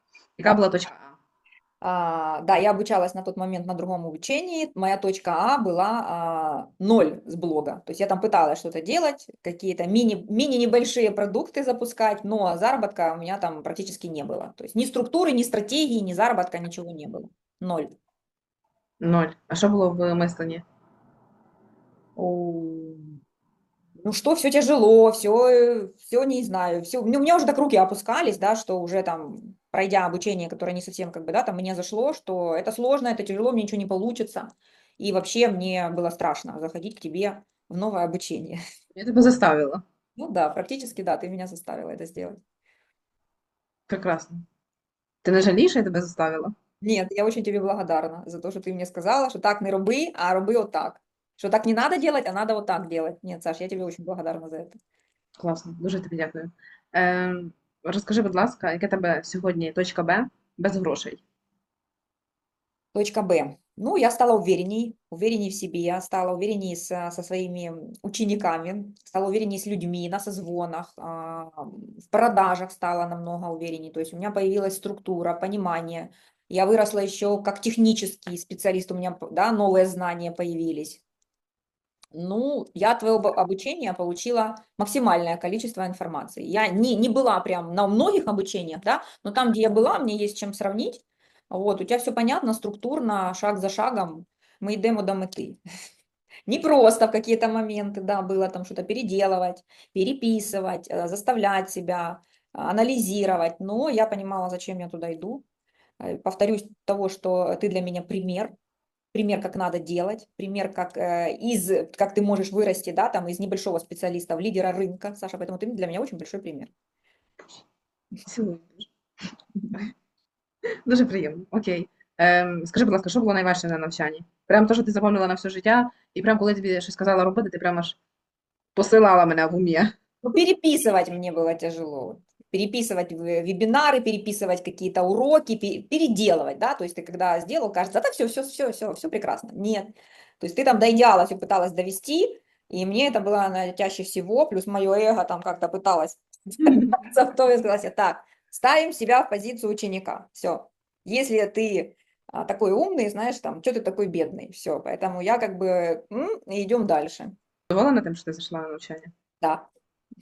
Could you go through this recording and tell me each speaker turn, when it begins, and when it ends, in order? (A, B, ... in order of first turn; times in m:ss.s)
0:00.4-0:01.2 A
0:01.8-0:17.9 B
0:19.0-0:20.6 A
0:22.2-0:23.2 B
0:24.0-0:38.6 B
0:38.9-0:39.8 A
0:40.2-0:42.4 B
0:43.9-0:44.4 A
0:45.2-0:46.5 A
0:46.8-0:54.8 B
0:55.4-1:01.2 A
1:02.9-1:21.0 B
1:22.1-1:35.6 B
1:36.5-1:45.4 B
1:46.0-1:48.5 B
1:49.1-1:56.7 B
1:58.2-1:58.9 A
2:00.9-2:08.0 A
2:08.7-2:09.9 A
2:10.2-2:37.3 B
2:37.7-2:39.1 A
2:39.4-2:39.7 B